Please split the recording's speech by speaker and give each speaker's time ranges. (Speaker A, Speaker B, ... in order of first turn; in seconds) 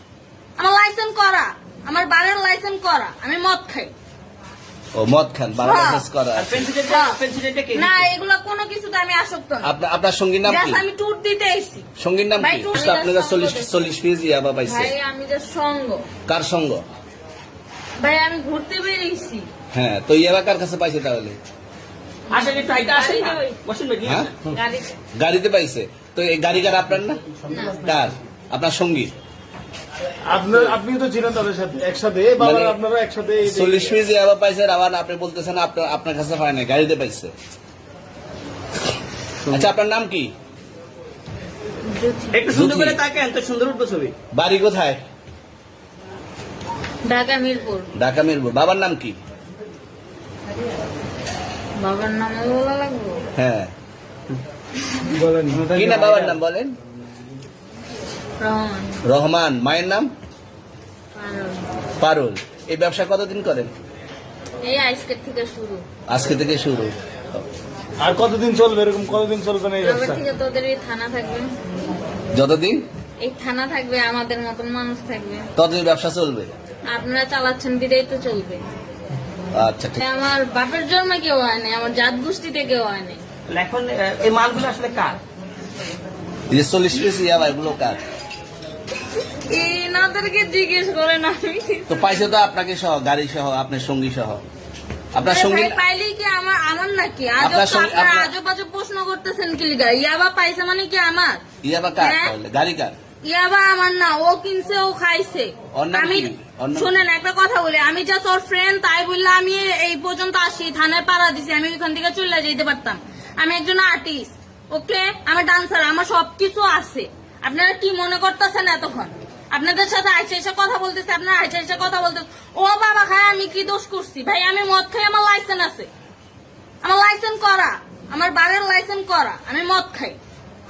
Speaker A: 0.6-3.9, 5.6-6.0, 6.9-7.2, 7.7-9.7, 10.5-11.9, 12.4-13.9, 14.7-16.1, 18.0-19.5, 22.9-23.6, 24.5-25.0, 27.5-27.8, 41.9-42.4, 47.0-47.9, 51.8-53.2, 58.4-59.0, 61.1-61.6, 64.6-65.8, 69.8-71.5, 73.2-75.5, 76.9-78.6, 80.0-83.2, 89.4-92.0, 95.2-101.4, 102.0-102.3, 103.2-125.9, 126.8-130.2
Speaker B: 5.0-6.6, 9.6-10.8, 12.0-14.9, 16.3-16.8, 19.7-21.4, 24.0-24.3, 25.1-27.2, 27.7-29.1, 32.4-32.8, 33.5-37.3, 39.5-40.3, 42.5-43.0, 44.3-45.0, 48.0-49.2, 53.4-53.7, 55.6-56.8, 59.0-60.1, 62.0-63.7, 66.1-66.9, 72.3-72.9, 75.6-76.5, 79.5-80.0, 86.5-88.0, 91.9-94.4, 95.1-95.8, 97.4-98.3, 101.6-103.0, 105.8-107.0
Speaker C: 6.3-8.1, 22.3-24.4, 42.3-44.1, 83.5-85.2
Speaker D: 30.2-33.9, 55.1-56.3, 68.0-70.2